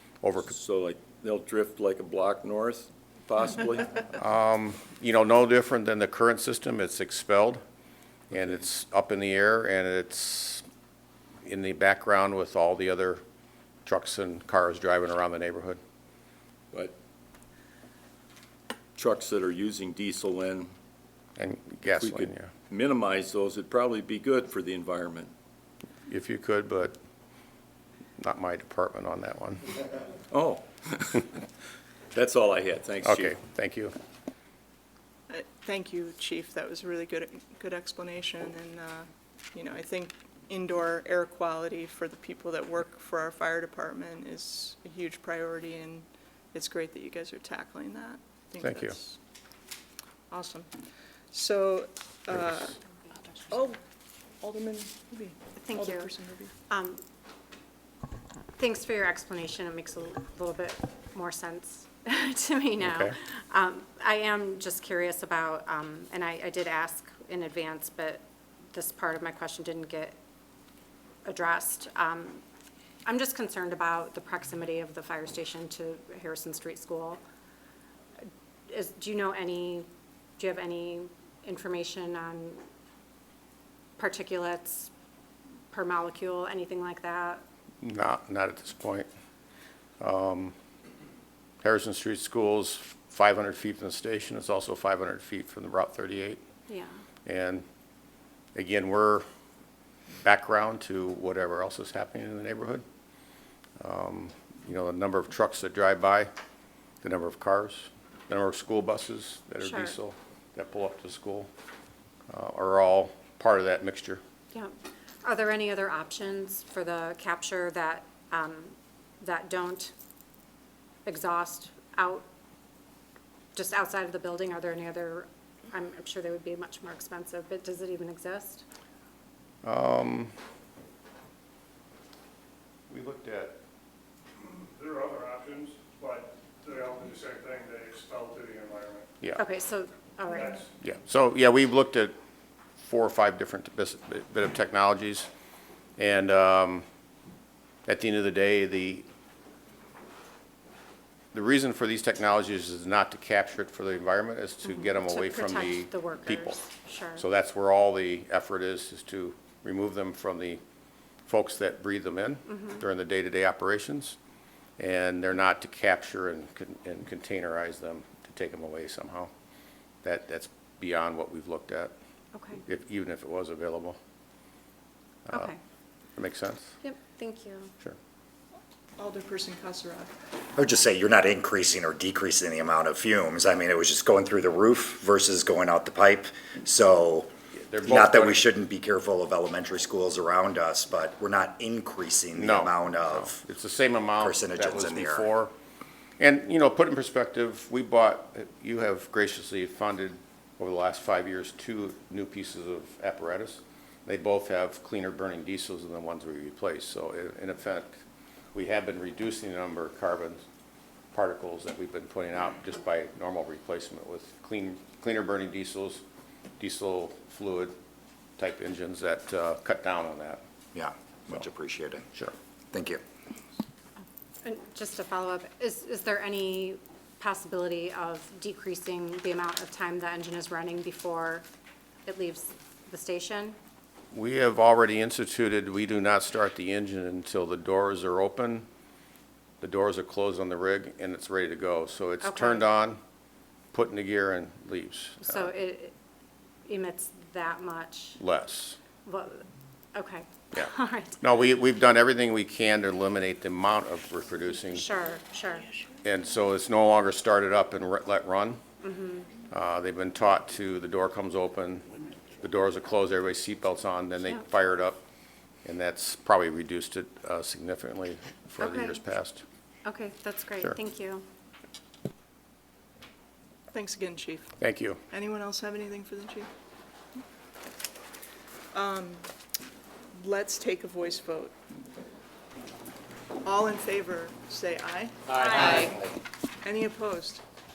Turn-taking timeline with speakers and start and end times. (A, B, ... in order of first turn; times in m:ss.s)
0:00.2-0:00.5 A
0:00.4-0:04.1 B
0:04.2-0:07.6 A
0:08.3-0:10.6 A
0:11.4-0:13.2 A
0:13.8-0:15.8 A
0:18.9-0:20.7 B
0:21.4-0:22.5 A
0:22.0-0:25.3 B
0:26.1-0:26.9 A
0:28.2-0:29.6 A
0:30.3-0:31.4 B
0:32.1-0:33.4 B
0:33.0-0:33.9 A
0:35.3-0:49.2 C
0:48.6-0:49.0 A
0:50.3-0:50.7 C
0:51.3-0:52.8 C
0:53.5-0:53.8 C
0:54.4-0:56.5 C
0:55.6-0:56.1 D
0:56.7-0:57.0 D
0:58.6-1:10.2 D
1:02.8-1:03.2 A
1:11.2-1:12.4 D
1:13.0-1:17.2 D
1:18.7-1:19.9 D
1:20.4-1:22.6 D
1:24.0-1:24.9 D
1:25.7-1:27.4 D
1:27.8-1:29.1 A
1:30.0-1:30.5 A
1:31.6-1:36.4 A
1:36.7-1:37.0 D
1:37.2-1:37.6 A
1:38.5-1:39.2 A
1:40.2-1:42.8 A
1:43.8-1:46.3 A
1:47.0-1:51.5 A
1:49.6-1:49.9 D
1:52.3-1:54.2 A
1:54.5-1:59.9 D
2:01.0-2:02.2 D
2:03.5-2:08.6 D
2:09.6-2:10.3 A
2:12.9-2:13.6 A
2:14.8-2:16.3 E
2:17.4-2:18.8 E
2:19.3-2:20.6 D
2:20.8-2:22.2 A
2:22.8-2:25.3 A
2:26.0-2:26.8 A
2:27.8-2:29.1 A
2:31.3-2:36.6 A
2:34.6-2:37.2 D
2:37.2-2:40.6 A
2:41.2-2:44.2 A
2:44.8-2:49.3 A
2:50.0-2:51.9 A
2:52.3-2:52.6 D
2:52.6-2:54.0 A
2:55.3-2:55.5 A
2:55.3-2:55.6 D
2:56.2-2:56.8 A
2:56.8-2:57.7 D
2:59.0-3:00.1 C
3:00.6-3:07.3 F
3:07.5-3:08.4 A
3:07.8-3:13.4 F
3:12.3-3:15.5 A
3:14.2-3:15.3 F
3:16.2-3:28.0 A
3:28.5-3:30.4 A
3:31.1-3:36.0 A
3:36.6-3:37.8 A
3:38.4-3:40.4 A
3:40.7-3:42.1 F
3:42.7-3:43.0 F
3:44.4-3:51.4 D
3:52.0-3:53.6 D
3:54.1-3:58.7 A
3:59.6-4:03.0 A
4:02.2-4:02.7 D
4:03.7-4:05.5 A
4:05.2-4:05.9 D
4:06.6-4:08.2 D
4:08.2-4:08.8 A
4:09.0-4:11.2 D
4:10.5-4:14.9 A
4:14.7-4:15.7 D
4:16.0-4:18.6 A
4:18.8-4:19.3 D
4:19.5-4:21.9 A
4:22.4-4:25.0 A
4:25.6-4:29.4 A
4:28.6-4:29.0 D
4:29.8-4:31.2 D
4:33.7-4:34.6 C
4:34.6-4:35.0 A
4:35.1-4:36.5 C
4:38.7-4:39.2 C
4:40.1-4:41.5 C
4:43.4-4:46.1 C
4:45.4-4:45.9 D
4:46.6-4:47.4 C